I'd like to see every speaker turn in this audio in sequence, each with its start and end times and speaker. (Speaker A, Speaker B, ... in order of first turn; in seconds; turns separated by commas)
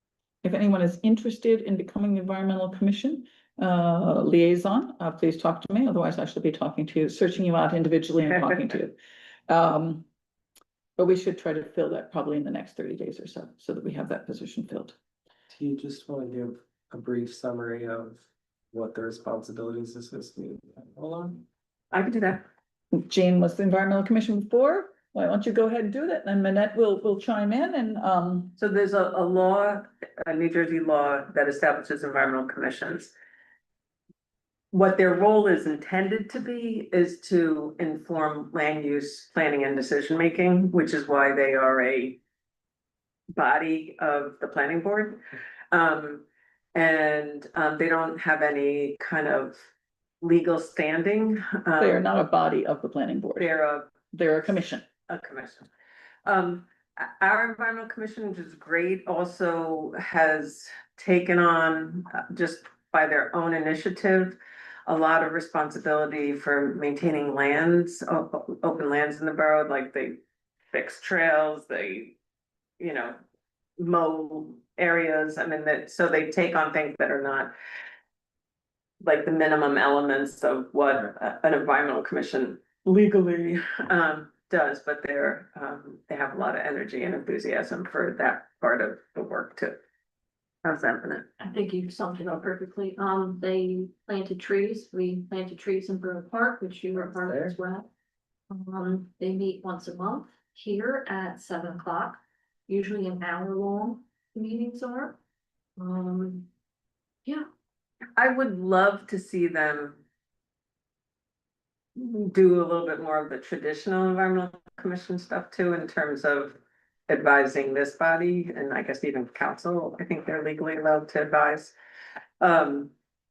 Speaker A: 0.4-8.9, Speaker B: 8.3-8.7, Speaker A: 9.5-10.1, Speaker A: 11.0-14.9, Speaker C: 15.5-21.4, Speaker B: 21.9-22.4, Speaker A: 22.9-28.6, Speaker B: 28.6-33.1, Speaker B: 34.7-42.2, Speaker B: 43.3-45.2, Speaker B: 45.7-49.6, Speaker B: 50.2-52.0, Speaker A: 51.8-53.5, Speaker B: 53.4-53.9, Speaker A: 54.1-54.9, Speaker B: 55.1-55.7, Speaker B: 56.2-70.2, Speaker B: 70.7-72.2, Speaker B: 72.8-73.2, Speaker B: 73.8-77.5, Speaker B: 79.0-89.8, Speaker B: 90.6-91.2, Speaker D: 91.4-97.9, Speaker C: 97.2-97.5, Speaker D: 98.5-105.2, Speaker D: 105.8-106.5, Speaker B: 108.2-110.0, Speaker B: 112.0-121.7, Speaker B: 122.4-122.9